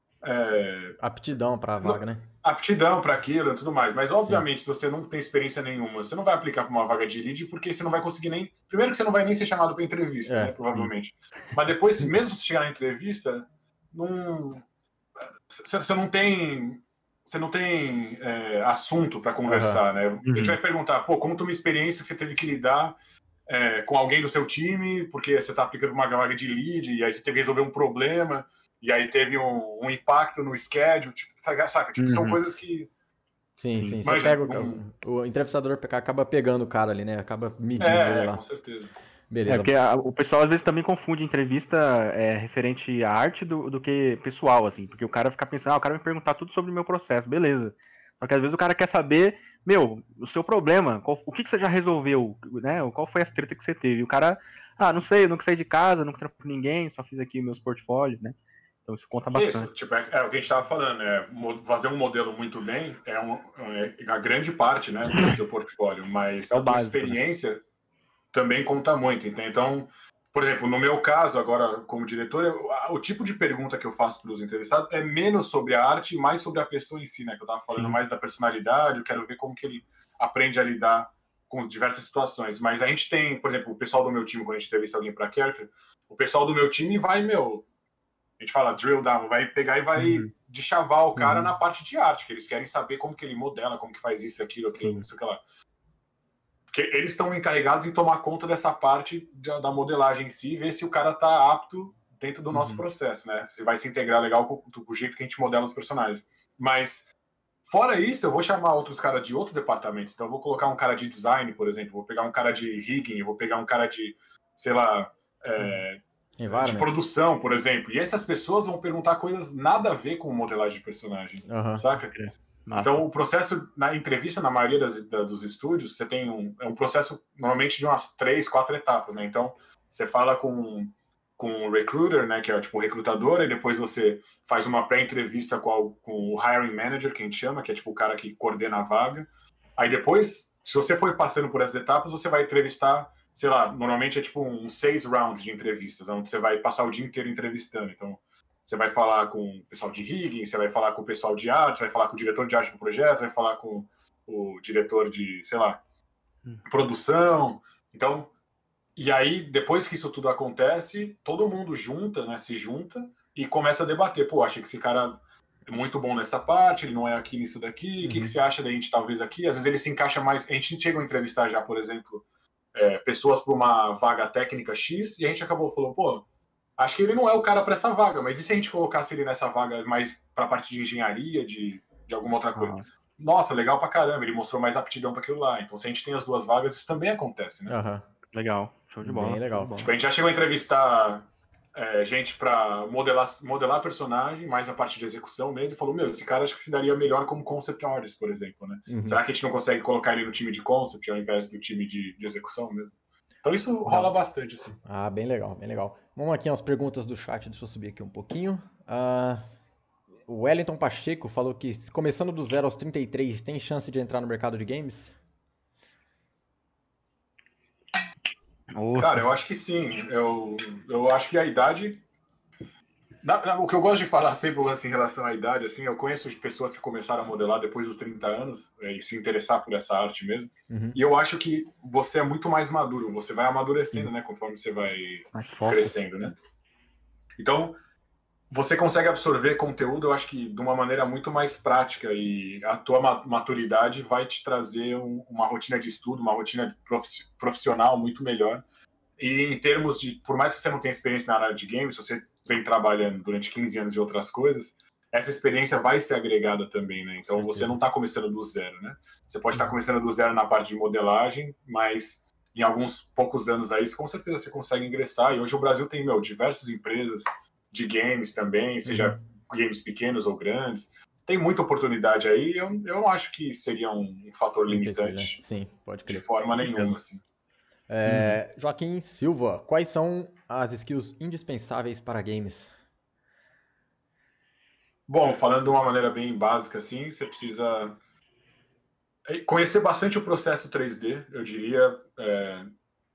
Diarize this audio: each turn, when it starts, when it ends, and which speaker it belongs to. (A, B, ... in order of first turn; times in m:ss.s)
0:00.2-0:01.0 A
0:01.0-0:02.3 B
0:01.8-0:14.6 A
0:10.2-0:10.5 B
0:15.2-0:32.9 A
0:19.5-0:19.8 B
0:20.2-0:20.6 C
0:32.0-0:32.4 C
0:33.6-0:38.4 B
0:34.0-0:34.8 A
0:37.8-0:38.9 A
0:39.3-0:39.7 B
0:39.5-0:59.7 C
0:59.3-1:07.6 A
1:06.5-1:07.2 C
1:08.3-1:27.6 A
1:17.7-1:18.0 C
1:28.4-1:35.4 A
1:30.0-1:30.3 C
1:31.2-1:31.5 B
1:36.7-1:47.1 A
1:42.5-1:42.8 B
1:47.6-2:02.1 A
1:56.4-1:56.9 B
2:01.5-2:01.8 B
2:02.1-2:03.0 C
2:02.8-2:35.8 A
2:36.6-2:38.3 A
2:39.0-2:56.2 A
2:48.0-2:48.3 B
2:56.8-3:07.7 A
3:02.6-3:02.8 C
3:07.7-3:08.0 B
3:08.3-3:09.8 C
3:09.0-3:09.9 B
3:09.8-3:24.8 A
3:18.9-3:19.2 B
3:24.8-3:29.4 B
3:30.3-3:35.1 B
3:38.7-3:39.2 C
3:39.0-3:42.0 A
3:43.2-3:56.4 A
3:50.7-3:51.0 B
3:55.3-3:55.9 C
3:57.4-3:57.7 A
3:58.5-4:08.6 A
4:09.2-4:35.4 A
4:28.8-4:29.2 B
4:34.7-4:37.0 B
4:36.1-4:37.2 A
4:37.9-4:42.7 B
4:38.0-4:38.4 C
4:45.1-4:48.0 A
4:49.3-4:52.7 A